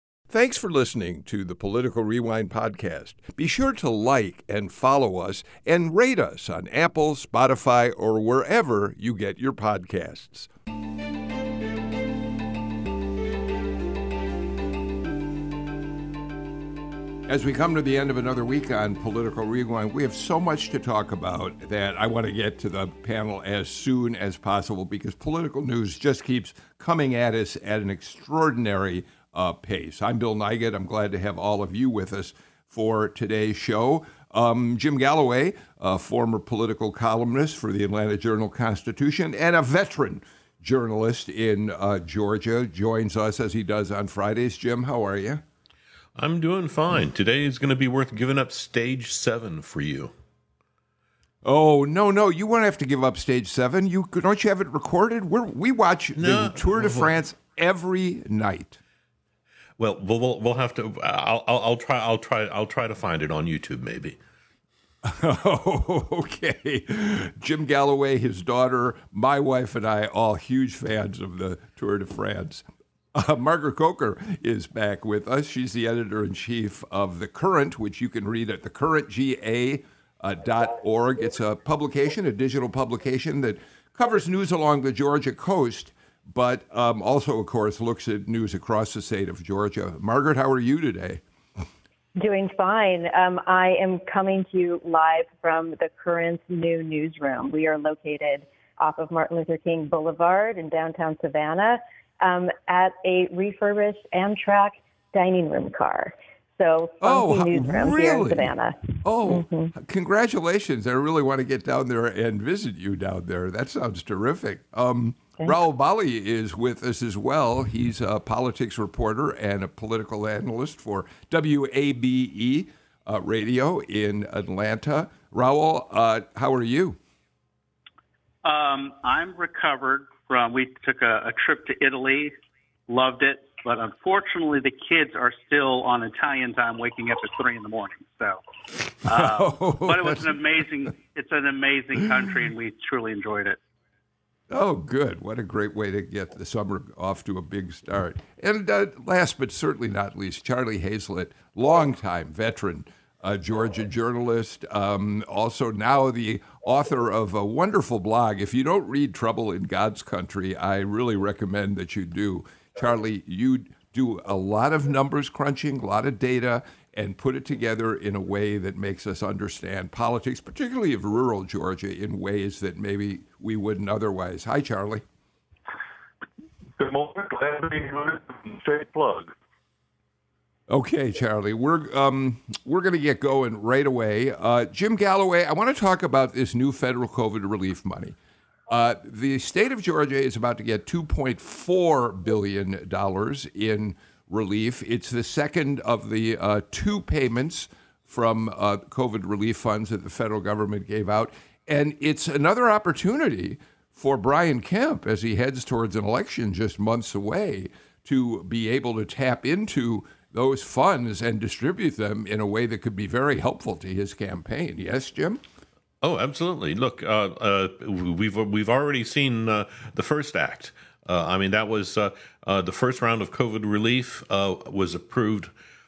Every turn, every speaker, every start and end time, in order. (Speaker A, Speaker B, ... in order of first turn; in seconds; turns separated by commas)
Speaker A: 0.3-10.5, Speaker A: 17.3-45.4, Speaker B: 46.2-50.1, Speaker A: 51.4-58.8, Speaker B: 56.2-57.1, Speaker B: 59.8-64.2, Speaker A: 65.0-91.2, Speaker C: 92.2-109.7, Speaker A: 107.0-108.5, Speaker A: 109.0-127.0, Speaker D: 128.4-132.3, Speaker D: 132.9-143.6, Speaker A: 139.1-140.3, Speaker A: 144.5-175.0, Speaker E: 176.8-179.3, Speaker A: 180.7-188.2, Speaker A: 188.7-215.4, Speaker B: 216.0-225.5